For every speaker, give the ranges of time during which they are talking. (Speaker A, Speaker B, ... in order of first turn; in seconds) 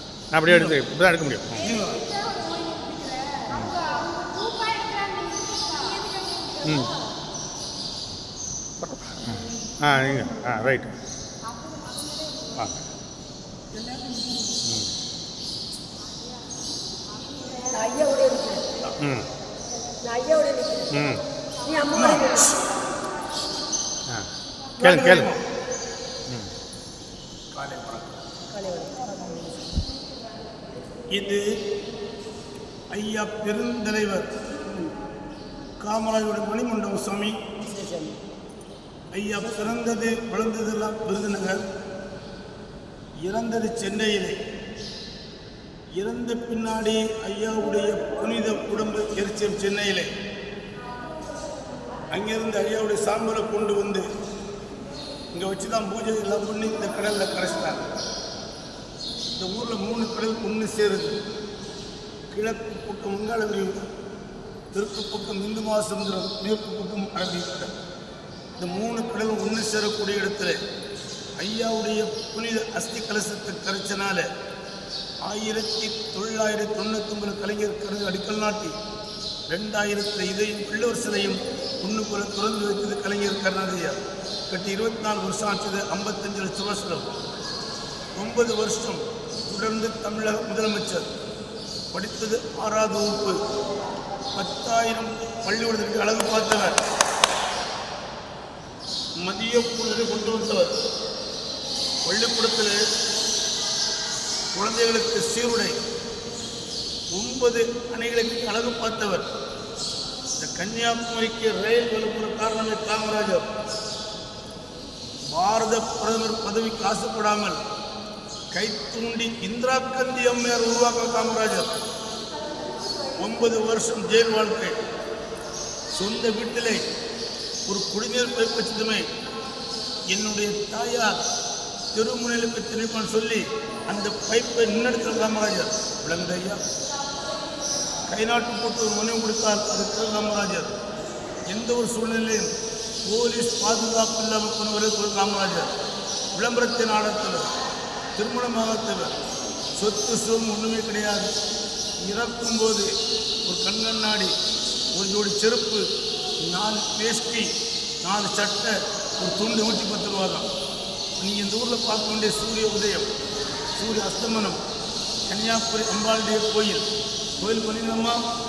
Speaker A: 0.3-1.7, 3.5-3.8, 6.6-7.0, 8.8-10.9, 12.5-12.8, 19.0-19.3, 20.9-21.2, 24.8-25.3
Speaker B: 0.5-0.8, 1.6-2.1, 21.9-22.5, 24.8-25.4, 27.5-28.2, 31.1-31.4, 32.9-34.3, 35.8-37.4, 39.1-41.6, 43.3-44.4, 46.0-50.1, 52.1-54.1, 55.3-58.0, 59.3-61.2, 62.3-63.9, 64.7-67.7, 68.5-70.6, 71.4-74.3, 75.2-78.7, 79.5-87.1, 88.2-91.1, 91.9-93.4, 94.3-96.8, 99.2-100.8, 102.0-102.8, 104.5-105.7, 107.1-109.2, 110.3-113.5, 115.3-117.6, 118.5-121.7, 123.1-124.7, 125.9-126.8, 127.7-129.0, 130.1-131.2, 131.9-136.6, 138.1-140.7, 141.5-142.5, 143.1-145.8, 146.3-147.5, 148.2-149.1, 149.8-151.3, 152.0-152.9, 153.4-154.3, 154.9-155.8, 156.4-157.5, 158.0-160.5, 161.2-163.1, 163.8-164.6, 165.3-166.8, 167.4-168.2
Speaker C: 4.8-5.4, 5.9-6.5, 17.7-18.7, 20.0-21.0, 21.6-22.5, 28.5-29.8, 37.7-38.2